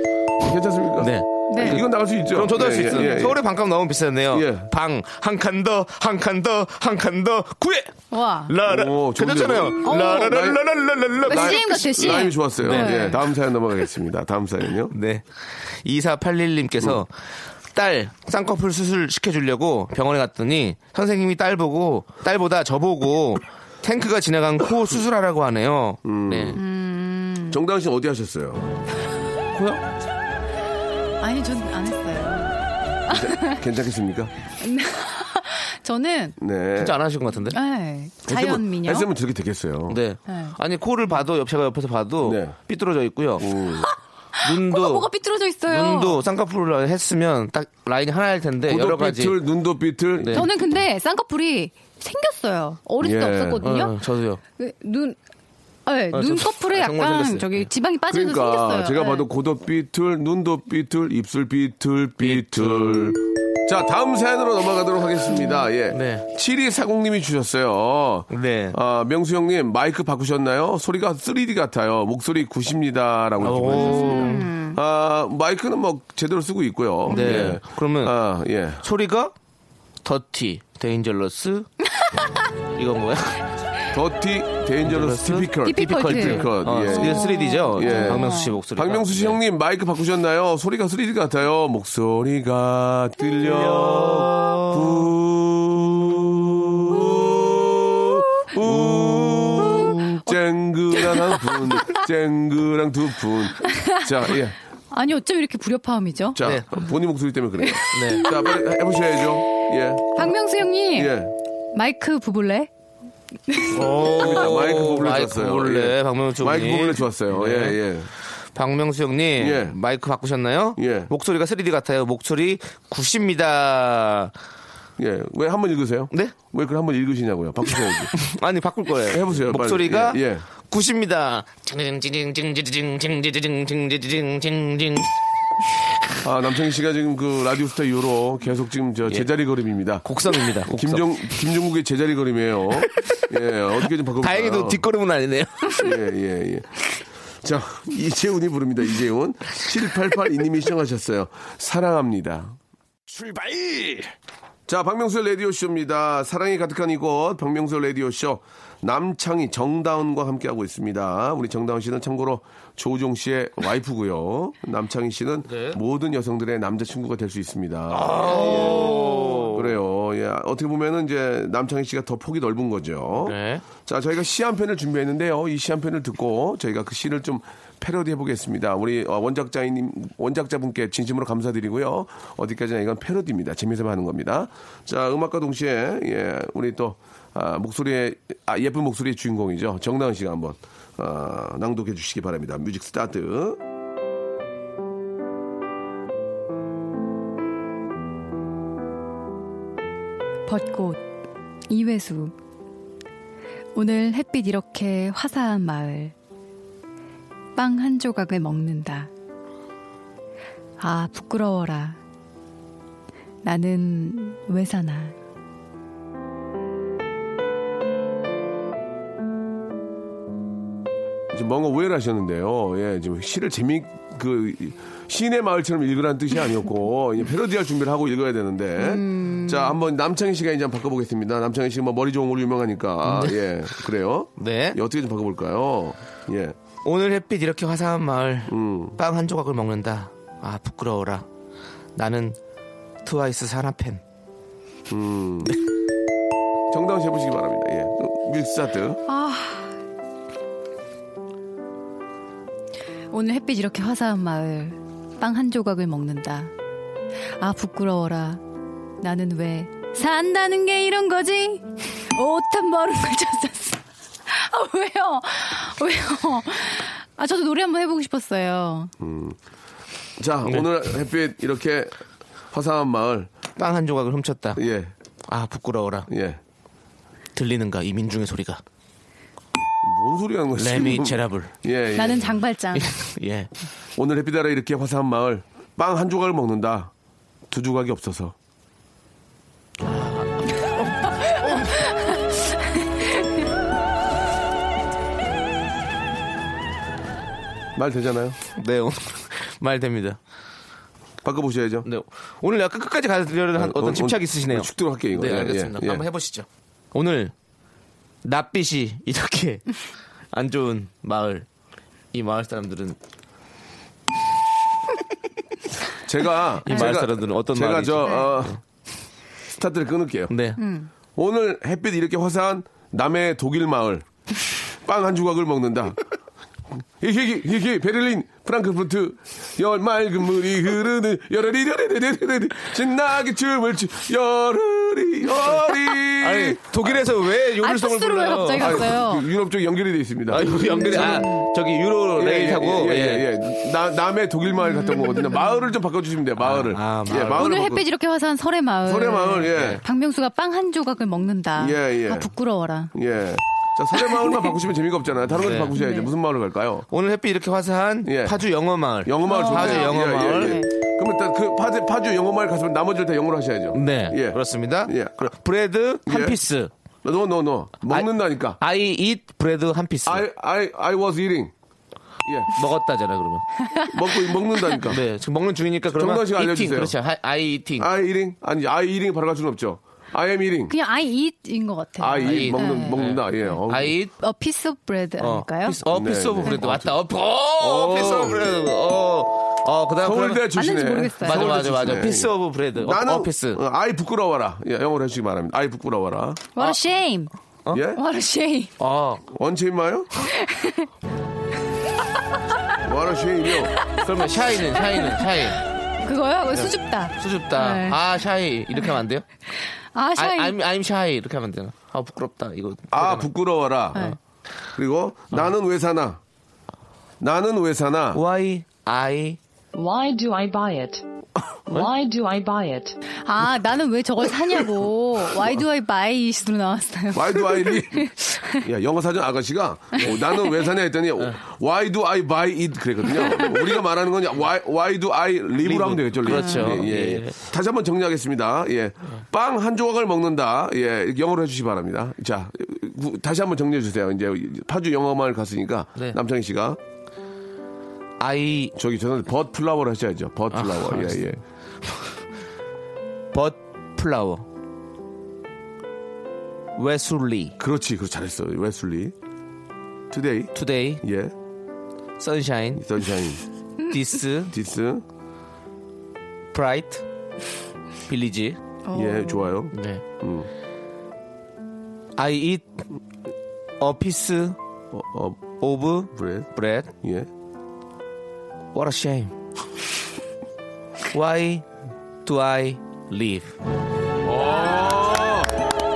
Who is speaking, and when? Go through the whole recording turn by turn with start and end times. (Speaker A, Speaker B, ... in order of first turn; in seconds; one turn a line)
Speaker A: 0.4-3.4
Speaker B: 1.0-7.9
Speaker C: 1.5-1.8
Speaker A: 4.3-4.7
Speaker C: 8.1-8.5
Speaker B: 8.5-13.2
Speaker A: 8.7-10.6
Speaker C: 9.8-10.5
Speaker A: 11.2-14.9
Speaker C: 11.3-13.2
Speaker B: 14.9-15.2
Speaker B: 15.8-17.1
Speaker B: 17.7-26.6
Speaker A: 26.0-26.6
Speaker C: 26.6-27.6
Speaker A: 27.5-28.7
Speaker B: 29.5-29.8
Speaker C: 31.2-32.5
Speaker C: 33.1-33.6
Speaker A: 33.1-34.3
Speaker C: 34.6-36.4
Speaker A: 36.4-37.0
Speaker B: 36.8-37.6
Speaker C: 37.5-39.1
Speaker A: 38.2-40.0
Speaker B: 39.9-43.5
Speaker C: 40.3-40.6
Speaker A: 42.2-42.5
Speaker A: 43.4-43.9
Speaker C: 44.4-46.2
Speaker B: 44.4-45.1
Speaker B: 45.7-49.4
Speaker A: 48.7-50.5
Speaker B: 50.2-50.5
Speaker C: 50.3-54.0
Speaker A: 53.0-53.7
Speaker B: 53.6-54.4
Speaker C: 54.5-55.2
Speaker C: 55.9-59.2
Speaker B: 56.1-57.7
Speaker A: 58.1-78.8
Speaker B: 62.2-63.2
Speaker B: 65.9-66.2
Speaker B: 68.3-68.8
Speaker B: 73.4-74.4
Speaker C: 73.7-74.8
Speaker B: 77.1-78.2
Speaker C: 77.1-77.5
Speaker B: 78.8-79.3
Speaker B: 80.0-81.7
Speaker B: 82.7-83.4
Speaker A: 83.9-104.6
Speaker B: 84.8-89.4
Speaker C: 85.6-88.5
Speaker B: 93.4-95.1
Speaker B: 98.6-100.2
Speaker C: 103.6-104.1
Speaker C: 104.9-106.4
Speaker A: 106.3-110.3
Speaker B: 106.4-106.7
Speaker C: 107.7-108.4
Speaker B: 107.9-108.2
Speaker C: 110.2-111.2
Speaker A: 110.9-111.3
Speaker C: 111.7-112.7
Speaker C: 113.5-114.1
Speaker B: 113.7-117.8
Speaker A: 113.9-118.1
Speaker B: 118.5-124.3
Speaker A: 119.4-119.8
Speaker A: 120.8-121.1
Speaker A: 125.0-128.1
Speaker B: 128.1-135.1
Speaker A: 129.1-130.4
Speaker A: 136.2-140.1
Speaker B: 140.0-141.3
Speaker A: 140.6-144.8
Speaker B: 142.9-143.2
Speaker B: 144.2-145.8
Speaker A: 145.7-146.9
Speaker A: 147.4-152.6
Speaker B: 153.2-153.7
Speaker A: 154.7-193.6
Speaker B: 165.5-165.8
Speaker B: 167.9-169.7
Speaker B: 173.2-173.6
Speaker C: 200.4-201.0
Speaker C: 201.7-202.3
Speaker C: 203.7-206.1
Speaker C: 207.6-209.1
Speaker C: 210.8-212.0
Speaker C: 213.4-215.1
Speaker A: 221.3-236.6
Speaker C: 228.8-229.8
Speaker B: 233.0-233.4
Speaker B: 234.4-234.8
Speaker B: 236.8-241.2
Speaker A: 238.5-239.0
Speaker B: 241.9-242.4
Speaker B: 243.0-244.0
Speaker A: 244.9-245.5
Speaker A: 246.7-249.0
Speaker C: 249.1-249.7
Speaker C: 253.1-256.5
Speaker C: 257.4-258.4
Speaker C: 259.0-268.9
Speaker A: 269.0-269.4
Speaker A: 270.2-271.9
Speaker A: 272.5-273.3
Speaker B: 273.6-274.6
Speaker A: 274.6-274.9
Speaker B: 275.3-276.1
Speaker A: 276.1-276.4
Speaker B: 277.3-278.6
Speaker A: 279.8-282.3
Speaker B: 280.6-281.5
Speaker C: 281.9-282.9
Speaker B: 282.7-283.5
Speaker A: 284.0-286.9
Speaker A: 287.5-288.3
Speaker B: 289.8-291.9
Speaker A: 297.8-298.4
Speaker B: 298.6-300.2
Speaker A: 301.2-301.9
Speaker B: 301.8-307.3
Speaker A: 303.6-306.0
Speaker B: 308.2-309.7
Speaker B: 310.3-311.4
Speaker B: 312.1-313.0
Speaker A: 316.0-318.6
Speaker B: 316.6-318.6
Speaker C: 316.7-317.0
Speaker C: 318.0-318.3
Speaker A: 319.6-320.3
Speaker B: 320.3-320.6
Speaker C: 320.6-320.9
Speaker A: 321.1-324.1
Speaker A: 324.8-326.0
Speaker A: 327.0-337.0
Speaker B: 336.2-338.9
Speaker C: 337.6-339.3
Speaker A: 338.6-341.2
Speaker B: 340.3-343.3
Speaker C: 340.6-341.5
Speaker A: 342.1-347.8
Speaker C: 344.7-345.6
Speaker B: 346.4-347.5
Speaker C: 347.1-352.9
Speaker A: 348.8-349.8
Speaker B: 349.5-349.8
Speaker A: 351.6-352.3
Speaker A: 352.9-356.9
Speaker C: 354.0-354.4
Speaker B: 355.4-355.7
Speaker C: 355.7-356.1
Speaker B: 356.9-360.6
Speaker A: 358.0-358.4
Speaker A: 359.0-365.1
Speaker C: 359.2-360.6
Speaker B: 363.7-366.7
Speaker A: 366.1-366.4
Speaker A: 367.0-368.6
Speaker B: 367.9-370.2
Speaker A: 370.1-371.5
Speaker A: 372.2-372.5
Speaker B: 372.5-373.4
Speaker A: 373.9-375.0
Speaker B: 374.8-377.9
Speaker A: 375.9-376.9
Speaker A: 377.8-380.7
Speaker C: 380.7-383.3
Speaker A: 382.0-383.9
Speaker B: 382.2-384.1
Speaker C: 384.2-385.8
Speaker B: 385.2-390.5
Speaker A: 385.9-386.9
Speaker A: 387.6-388.4
Speaker A: 390.0-396.4
Speaker C: 390.5-391.5
Speaker B: 391.2-393.6
Speaker C: 396.5-397.3
Speaker A: 397.7-398.0
Speaker C: 397.9-398.7
Speaker B: 398.8-399.2
Speaker A: 399.3-400.3
Speaker C: 400.3-400.9
Speaker A: 402.8-403.8
Speaker C: 403.9-408.0
Speaker B: 404.0-405.6
Speaker B: 406.5-409.2
Speaker C: 409.9-410.6
Speaker B: 410.1-413.3
Speaker A: 412.9-414.1
Speaker A: 414.7-416.2
Speaker A: 417.2-418.2
Speaker B: 418.1-419.4
Speaker D: 419.7-421.0
Speaker D: 421.7-423.0
Speaker C: 423.2-428.6
Speaker A: 427.1-446.8
Speaker C: 430.0-430.5
Speaker B: 435.6-437.4
Speaker C: 436.3-436.8
Speaker B: 448.2-448.7
Speaker A: 448.7-451.4
Speaker B: 450.5-451.2
Speaker B: 453.3-454.4
Speaker B: 456.8-457.6
Speaker A: 457.6-459.1
Speaker A: 460.1-461.3
Speaker B: 460.5-461.0
Speaker B: 462.2-462.8
Speaker A: 462.8-463.4
Speaker B: 463.9-464.5
Speaker A: 464.5-465.0
Speaker B: 466.5-467.0
Speaker B: 468.1-468.6
Speaker C: 468.8-469.5
Speaker A: 468.9-470.5
Speaker B: 469.7-470.0
Speaker B: 472.2-472.8
Speaker B: 473.8-474.6
Speaker A: 474.9-475.4
Speaker B: 475.6-476.9
Speaker A: 476.1-477.3
Speaker B: 478.7-479.3
Speaker B: 481.1-481.6
Speaker B: 482.2-483.5
Speaker A: 484.2-485.5
Speaker C: 484.4-485.2